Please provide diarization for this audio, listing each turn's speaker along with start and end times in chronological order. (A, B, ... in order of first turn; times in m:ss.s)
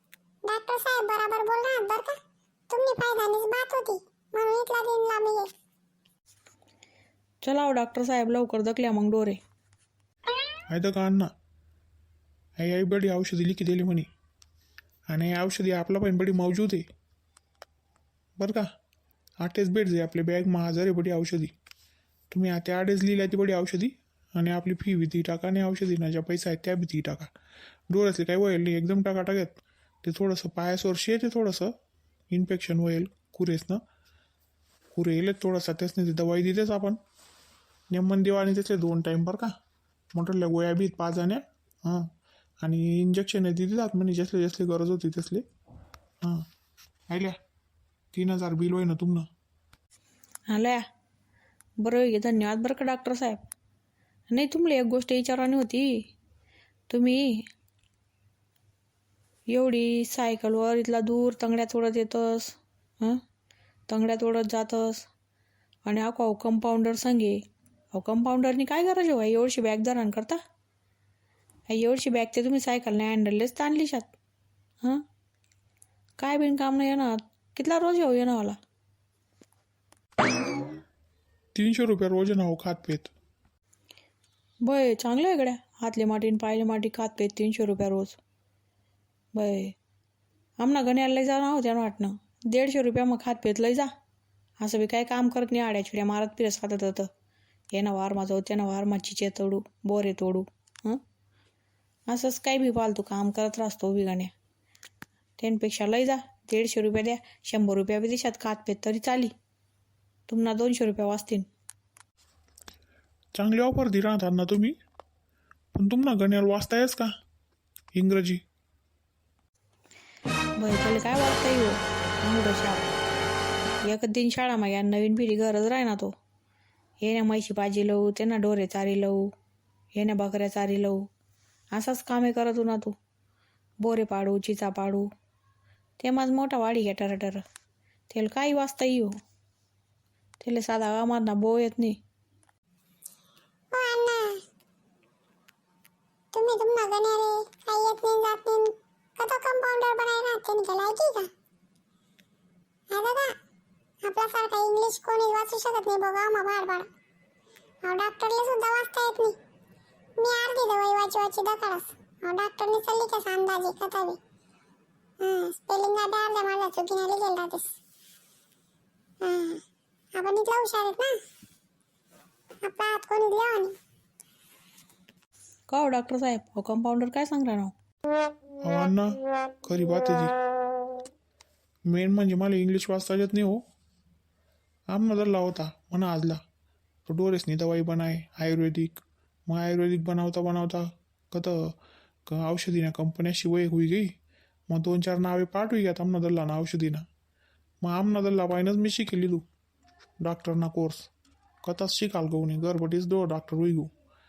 0:00.4-0:05.5 A
0:07.4-0:09.4 B
0:10.7-0:11.3 C
0:12.6-0:14.1 C
0:15.1-0:16.8 C
0:18.4-0:18.7 C
0:19.4-0:21.5 C
0:22.3-0:27.3 C
0:27.9-0:31.7 C
0:32.3-0:33.8 C
0:34.9-0:37.0 C
0:37.9-0:39.5 C
0:40.1-0:42.1 C
0:42.6-0:45.4 C
0:47.1-0:47.4 C
0:48.1-0:49.3 C
0:50.5-0:50.8 B
0:51.8-0:53.4 B
0:54.3-0:56.0 B
0:56.9-0:57.4 B
0:59.5-1:03.2 B
1:03.9-1:05.0 B
1:05.8-1:07.4 B
1:07.9-1:10.4 B
1:11.7-1:14.1 B
1:16.2-1:18.6 B
1:21.5-1:23.1 C
1:24.6-1:28.2 B
1:29.3-1:29.7 B
1:30.6-1:33.9 B
1:34.6-1:37.1 B
1:37.7-1:41.0 B
1:42.1-1:44.3 B
1:45.4-1:49.3 B
1:50.3-1:51.5 B
1:53.3-1:54.8 C
1:55.7-1:57.1 C
1:57.9-1:58.4 C
2:00.6-2:02.9 B
2:03.8-2:06.1 B
2:07.0-2:09.3 B
2:09.9-2:11.1 B
2:11.7-2:13.0 B
2:13.8-2:15.1 B
2:16.0-2:17.4 B
2:18.1-2:19.1 B
2:20.4-2:22.0 B
2:23.7-2:24.4 A
2:26.3-2:31.3 A
2:32.9-2:33.3 A
2:34.0-2:36.9 A
2:37.8-2:39.4 A
2:40.2-2:44.2 A
2:45.2-2:47.7 A
2:49.2-2:49.6 A
2:50.1-2:51.2 A
2:52.6-2:53.8 A
2:55.7-2:57.7 B
2:58.6-3:00.3 C
3:01.9-3:03.6 C
3:04.9-3:06.4 C
3:07.1-3:11.8 C
3:12.3-3:14.1 C
3:14.7-3:17.1 C
3:17.8-3:19.4 C
3:20.2-3:21.1 C
3:21.6-3:23.9 C